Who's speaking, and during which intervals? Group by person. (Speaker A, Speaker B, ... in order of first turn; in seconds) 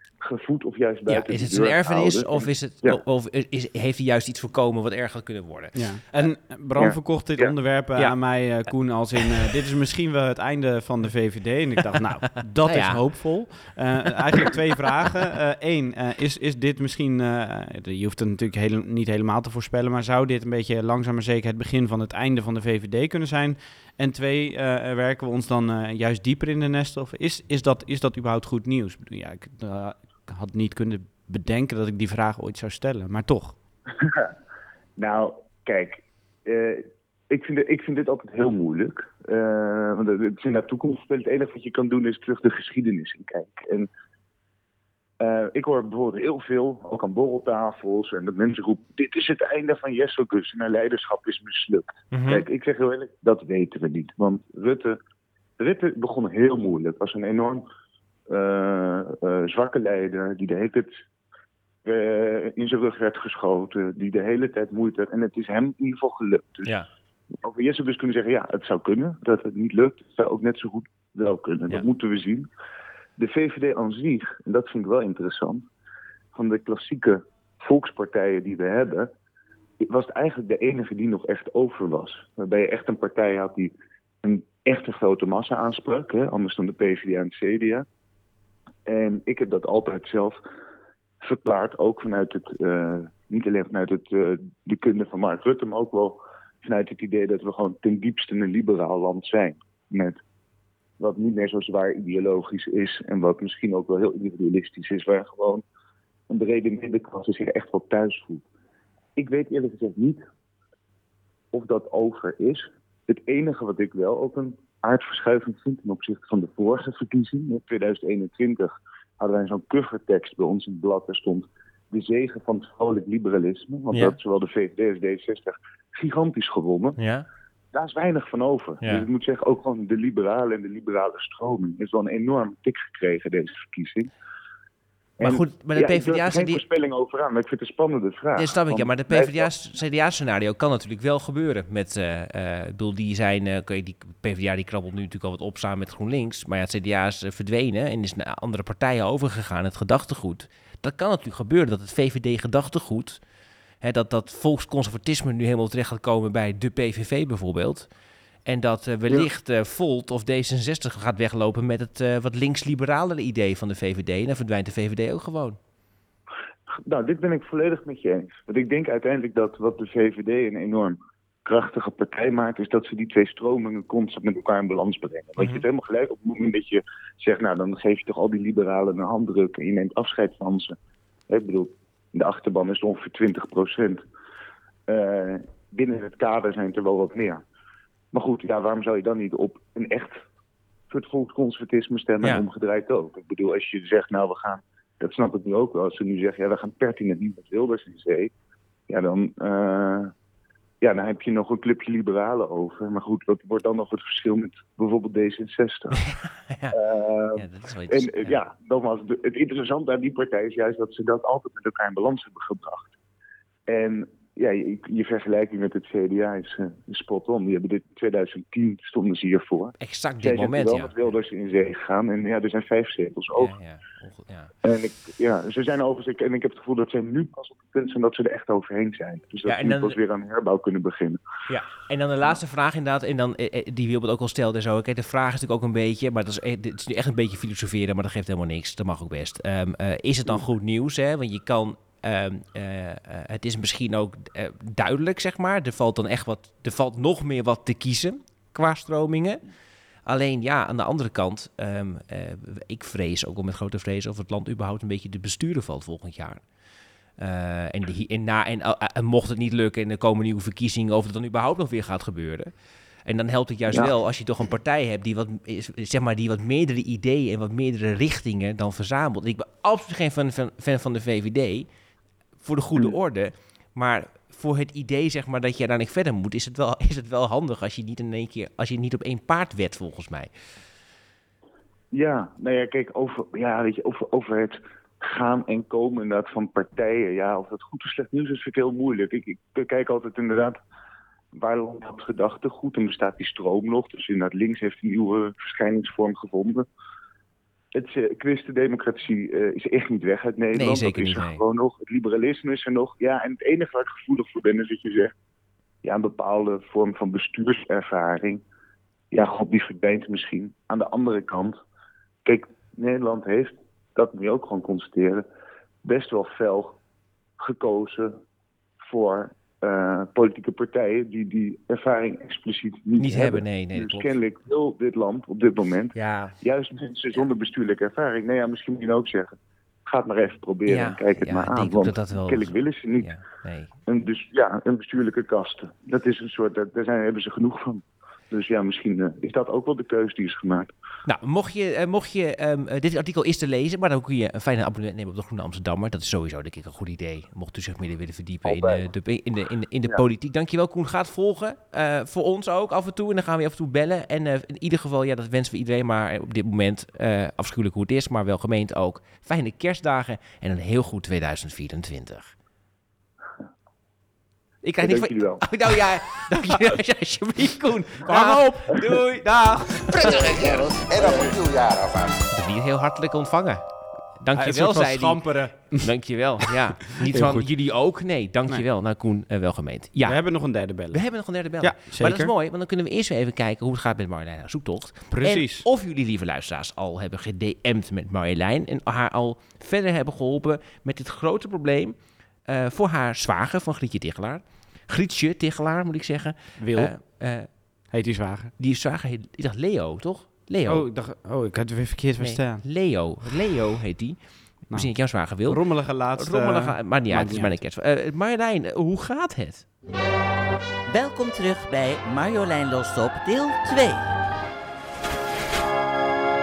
Speaker A: 0.2-3.0, 6.8-7.5, 34.0-34.3, 35.0-43.9, 45.2-55.0, 55.6-57.6, 58.3-60.9, 61.8-66.7, 67.4-72.5, 73.2-75.7, 76.3-79.1, 79.8-83.7, 84.2-87.8, 88.9-90.4, 91.2-100.2, 101.0-105.6, 106.3-108.4, 109.2-110.2, 111.5-127.0, 127.7-134.1, 135.2-139.5, 166.7-180.8, 181.3-184.0, 184.9-187.4, 188.1-190.2, 190.9-198.3, 198.9-200.1, 200.8-206.0, 206.7-212.9, 213.7-223.5, 224.6-231.2, 281.9-290.6, 291.3-296.6, 297.7-305.1, 305.8-308.4, 309.1-311.6, 312.2-315.2, 315.8-316.8, 317.4-318.2, 318.8-333.1, 333.9-340.7, 348.4-348.9, 364.8-365.8
Speaker B: 1.1-6.3, 12.6-13.3, 52.1-52.4, 127.0-127.2, 135.2-136.6, 138.3-153.2, 153.8-157.9, 158.4-165.6, 175.4-175.6, 206.0-206.8, 207.3-208.4, 219.8-220.9, 223.3-224.5, 229.4-230.0, 231.5-249.4, 250.1-256.4, 257.2-262.5, 263.1-271.7, 272.4-280.3, 300.5-301.4, 323.0-324.1, 325.9-326.4, 330.7-333.7, 341.1-362.3, 364.6-370.1, 372.3-373.6, 374.2-380.2, 380.9-391.9, 392.5-397.5, 398.6-400.9, 402.2-409.6
Speaker C: 5.7-33.5, 368.1-368.5, 374.4-375.9, 376.9-377.5, 380.0-381.0, 381.6-382.3, 385.1-385.7, 396.6-396.9, 397.9-398.5, 400.7-402.6, 404.7-407.6
Speaker D: 369.9-372.3
Speaker E: 410.9-414.1